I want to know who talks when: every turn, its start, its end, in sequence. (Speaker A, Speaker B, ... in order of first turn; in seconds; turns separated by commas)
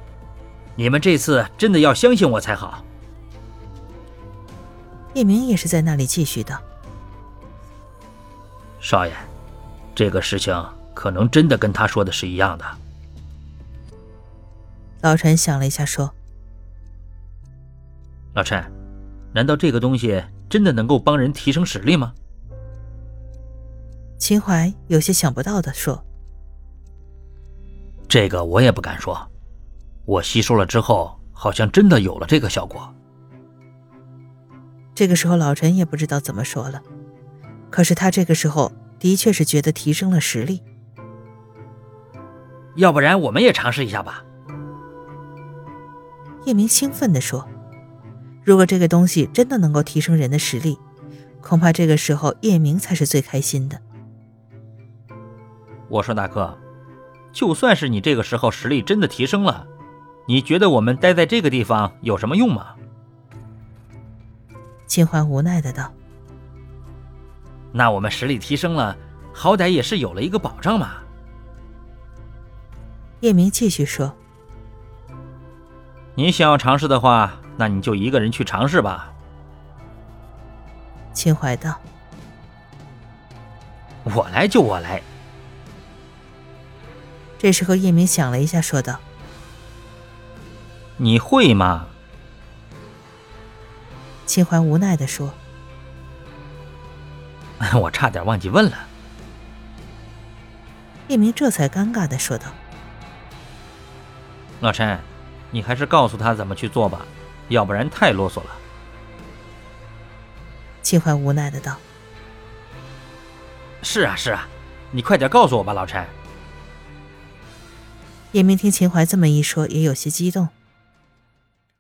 Speaker A: 0.8-2.9, Speaker B: 5.1-6.6, Speaker A: 8.8-9.3, Speaker A: 10.0-12.8, Speaker B: 15.0-16.1, Speaker A: 18.3-18.7, Speaker A: 19.3-22.1, Speaker B: 24.2-26.0, Speaker A: 28.1-29.3, Speaker A: 30.1-32.9, Speaker B: 35.0-36.8, Speaker B: 37.7-40.6, Speaker A: 42.8-44.2, Speaker B: 46.4-47.5, Speaker B: 48.4-50.8, Speaker B: 51.4-53.8, Speaker A: 55.9-56.6, Speaker A: 57.3-59.7, Speaker A: 60.3-62.8, Speaker B: 64.9-65.9, Speaker A: 67.7-71.0, Speaker B: 73.2-74.2, Speaker A: 76.2-79.1, Speaker B: 81.1-81.8, Speaker A: 84.0-85.0, Speaker B: 87.4-89.0, Speaker A: 91.0-91.9, Speaker B: 94.3-95.4, Speaker A: 97.6-98.9, Speaker B: 101.1-102.6, Speaker A: 104.6-108.6, Speaker B: 110.8-111.8, Speaker A: 113.8-116.1, Speaker B: 118.3-120.5